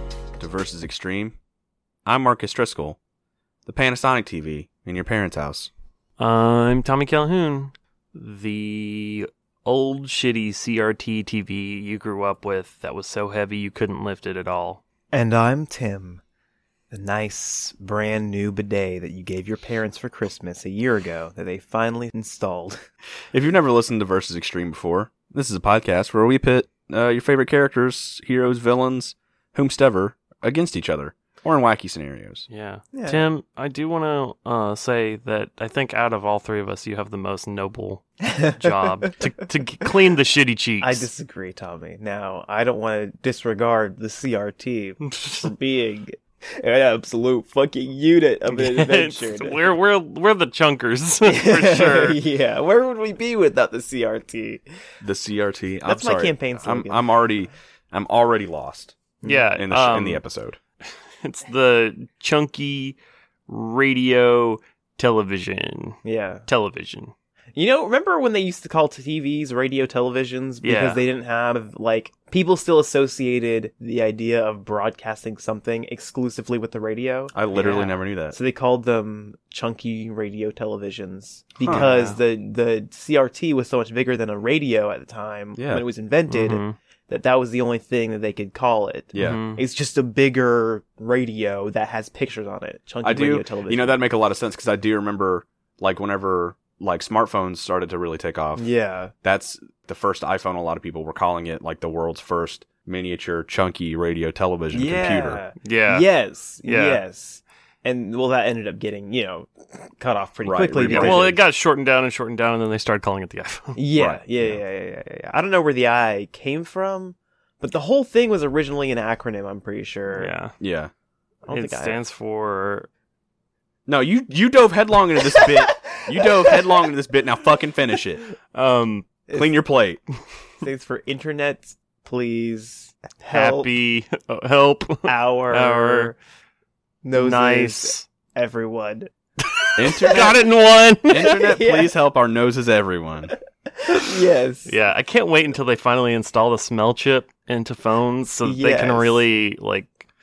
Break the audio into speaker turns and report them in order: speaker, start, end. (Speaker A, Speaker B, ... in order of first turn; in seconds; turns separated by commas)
Speaker A: 0.4-1.4, Speaker A: 2.0-3.0, Speaker A: 3.7-5.7, Speaker B: 6.2-14.8, Speaker C: 15.1-16.2, Speaker C: 16.9-22.8, Speaker A: 23.3-32.5, Speaker B: 32.5-41.1, Speaker C: 32.9-33.2, Speaker C: 38.3-38.8, Speaker C: 40.8-49.8, Speaker B: 45.0-45.5, Speaker B: 48.5-52.2, Speaker C: 51.3-54.6, Speaker A: 55.0-59.0, Speaker C: 55.9-57.1, Speaker B: 59.2-60.2, Speaker A: 59.5-60.6, Speaker B: 61.2-63.0, Speaker B: 63.5-67.1, Speaker C: 66.0-66.5, Speaker C: 67.5-94.0, Speaker B: 70.6-71.0, Speaker A: 77.3-78.4, Speaker A: 81.6-81.9, Speaker B: 81.7-82.2, Speaker A: 85.6-85.8, Speaker B: 86.3-86.8, Speaker A: 89.1-89.4, Speaker B: 89.2-89.6, Speaker A: 93.0-98.7, Speaker C: 98.6-99.1, Speaker A: 99.2-105.4, Speaker C: 104.7-111.3, Speaker B: 105.6-106.1, Speaker B: 106.6-107.0, Speaker A: 110.4-111.4, Speaker B: 110.8-113.8, Speaker C: 113.8-120.3, Speaker A: 114.0-114.6, Speaker B: 120.2-120.5, Speaker A: 120.6-120.9, Speaker C: 121.5-122.0, Speaker B: 121.5-122.9, Speaker A: 123.9-128.3, Speaker B: 128.6-129.1, Speaker C: 129.3-129.5, Speaker A: 129.3-130.0, Speaker C: 130.6-133.7, Speaker B: 133.3-136.1, Speaker C: 135.1-136.2, Speaker C: 137.0-139.1, Speaker B: 137.2-138.0, Speaker B: 139.6-141.3, Speaker A: 139.8-140.4, Speaker A: 141.1-143.3, Speaker C: 141.2-141.9, Speaker C: 143.8-144.7, Speaker B: 144.7-150.0, Speaker C: 148.4-149.2